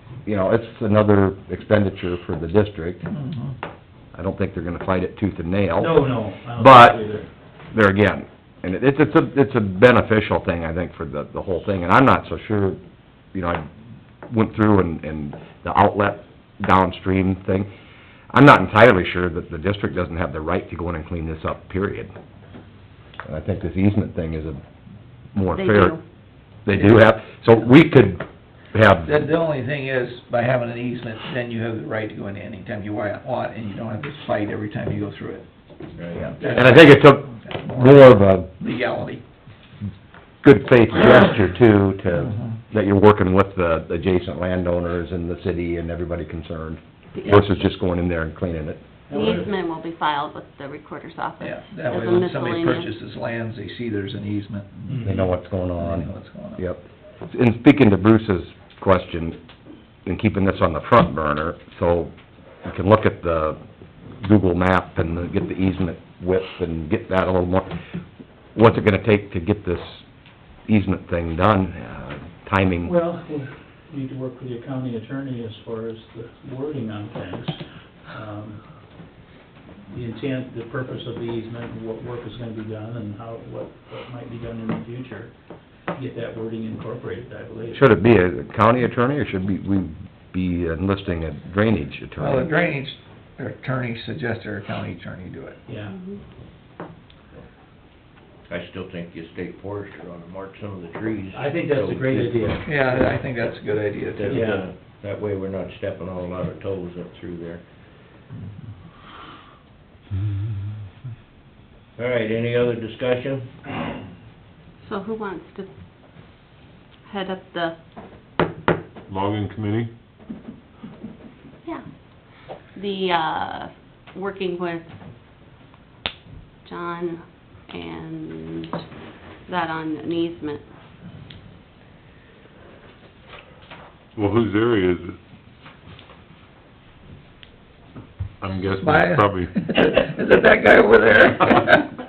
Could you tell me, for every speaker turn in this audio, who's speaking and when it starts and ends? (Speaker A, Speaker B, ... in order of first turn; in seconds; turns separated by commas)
Speaker A: 0.2-3.0, Speaker B: 3.1-3.6, Speaker A: 4.1-7.0, Speaker C: 5.8-7.3, Speaker A: 7.7-12.8, Speaker A: 13.3-13.7, Speaker A: 14.3-17.7, Speaker A: 18.3-22.1, Speaker A: 23.2-24.6, Speaker A: 25.3-26.0, Speaker D: 25.5-26.0, Speaker A: 26.6-29.2, Speaker B: 29.1-35.5, Speaker E: 36.0-36.3, Speaker B: 36.4-39.2, Speaker A: 36.4-38.5, Speaker A: 40.4-48.8, Speaker D: 47.1-47.6, Speaker C: 49.1-49.5, Speaker D: 49.1-52.9, Speaker B: 51.4-56.6, Speaker C: 54.9-55.3, Speaker A: 55.0-59.4, Speaker A: 60.1-62.1, Speaker A: 62.6-63.6, Speaker A: 64.2-67.8, Speaker A: 68.5-70.0, Speaker A: 70.7-72.9, Speaker C: 72.8-78.6, Speaker C: 79.9-85.3, Speaker C: 86.0-87.9, Speaker A: 87.7-92.5, Speaker B: 92.2-95.6, Speaker C: 95.7-96.0, Speaker D: 95.9-96.2, Speaker E: 98.5-102.5, Speaker C: 101.3-103.2, Speaker B: 102.7-104.2, Speaker E: 104.1-107.6, Speaker C: 104.3-104.7, Speaker E: 112.0-113.7, Speaker D: 114.8-115.7, Speaker D: 117.0-117.8, Speaker F: 119.1-119.9, Speaker D: 121.6-124.9, Speaker D: 126.7-128.8, Speaker D: 129.5-130.7, Speaker F: 134.2-135.2, Speaker F: 138.4-139.7, Speaker B: 138.8-141.9